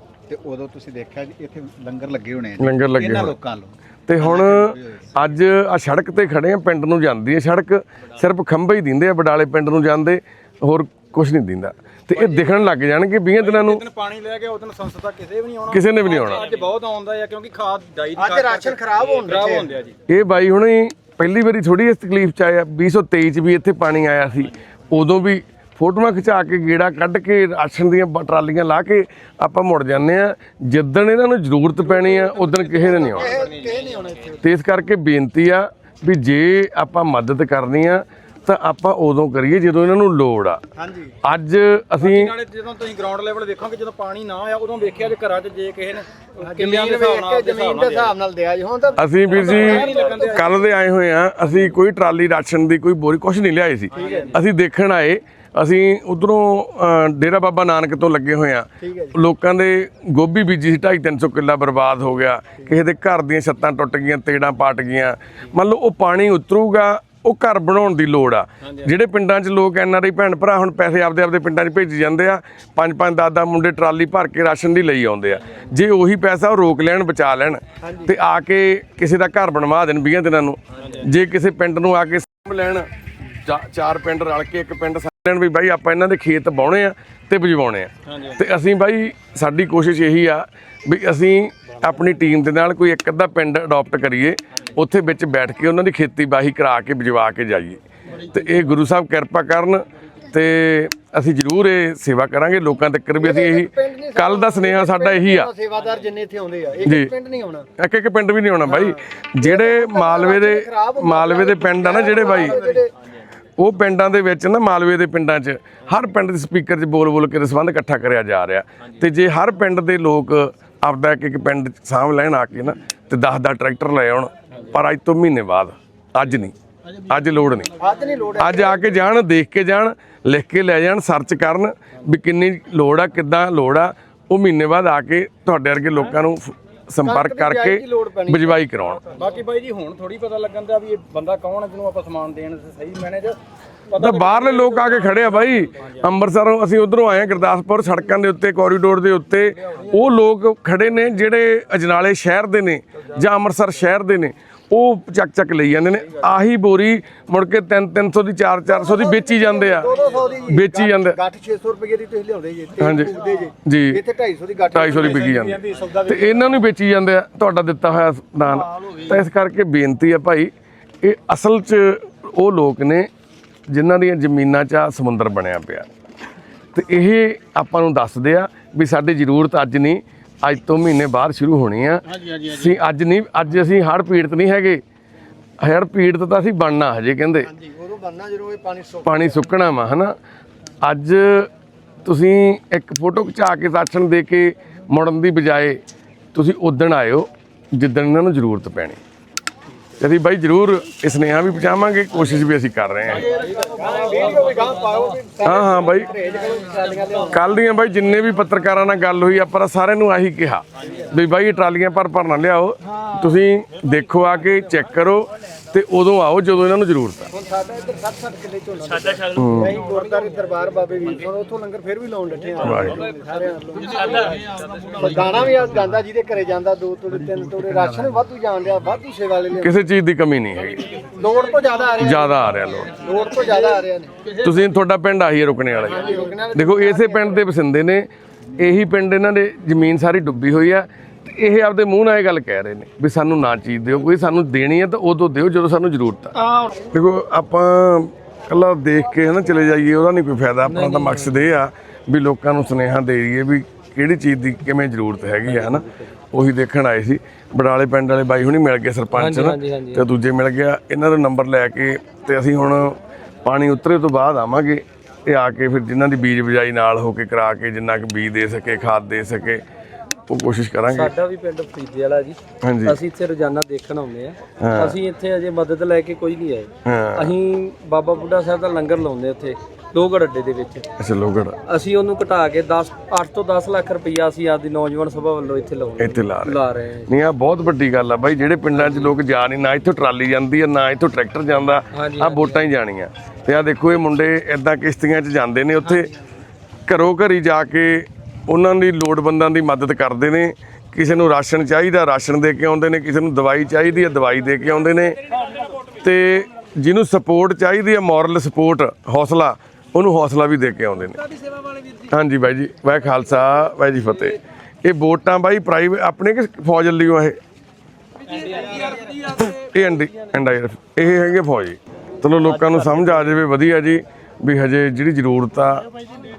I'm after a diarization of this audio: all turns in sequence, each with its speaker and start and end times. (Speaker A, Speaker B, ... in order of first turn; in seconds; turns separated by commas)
Speaker A: 0.3-5.1, Speaker B: 2.6-3.4, Speaker B: 4.1-13.8, Speaker C: 12.2-12.5, Speaker C: 13.4-19.9, Speaker B: 15.7-16.5, Speaker D: 18.1-19.7, Speaker B: 20.1-33.4, Speaker D: 32.0-34.4, Speaker C: 33.5-33.8, Speaker B: 34.4-40.6, Speaker D: 40.8-41.1, Speaker B: 41.2-42.4, Speaker C: 42.0-48.1, Speaker D: 46.4-50.7, Speaker B: 49.0-105.5, Speaker C: 49.5-50.3, Speaker D: 53.9-54.4, Speaker D: 58.8-59.2, Speaker D: 68.6-68.9, Speaker D: 77.8-78.1, Speaker D: 103.2-107.7, Speaker B: 106.8-107.1, Speaker B: 107.8-112.6, Speaker D: 108.6-112.9, Speaker B: 113.6-127.7, Speaker D: 127.8-129.1, Speaker B: 128.4-139.1, Speaker D: 137.0-138.6, Speaker C: 139.1-143.4, Speaker C: 143.9-145.3, Speaker B: 144.0-159.9, Speaker D: 158.7-166.5, Speaker B: 160.4-161.2, Speaker B: 162.8-164.0, Speaker B: 164.7-173.1, Speaker B: 173.7-175.9, Speaker B: 176.7-184.8, Speaker B: 185.6-187.5, Speaker D: 187.4-189.4, Speaker B: 189.0-190.1, Speaker B: 190.8-191.5, Speaker B: 192.0-195.8, Speaker B: 196.3-199.0, Speaker B: 200.0-203.3, Speaker D: 203.1-207.4, Speaker B: 205.4-206.1, Speaker B: 207.3-217.3, Speaker D: 217.3-229.8, Speaker B: 219.3-219.8, Speaker B: 222.6-223.0, Speaker B: 229.6-231.1, Speaker D: 231.1-234.3, Speaker B: 232.0-232.9, Speaker B: 234.3-238.1, Speaker D: 235.7-237.4, Speaker B: 238.6-246.3, Speaker B: 246.9-269.6, Speaker E: 250.7-251.5, Speaker E: 255.4-256.1, Speaker E: 259.1-260.1, Speaker B: 270.3-271.1, Speaker E: 270.9-280.9, Speaker B: 272.6-273.0, Speaker B: 274.6-275.0, Speaker B: 276.8-277.4, Speaker B: 281.0-281.6, Speaker E: 281.6-287.1, Speaker B: 286.0-296.1, Speaker E: 288.7-289.2, Speaker E: 291.9-292.7, Speaker B: 296.9-305.2, Speaker B: 305.9-311.2, Speaker B: 312.0-317.4, Speaker E: 318.3-319.2, Speaker B: 319.4-325.9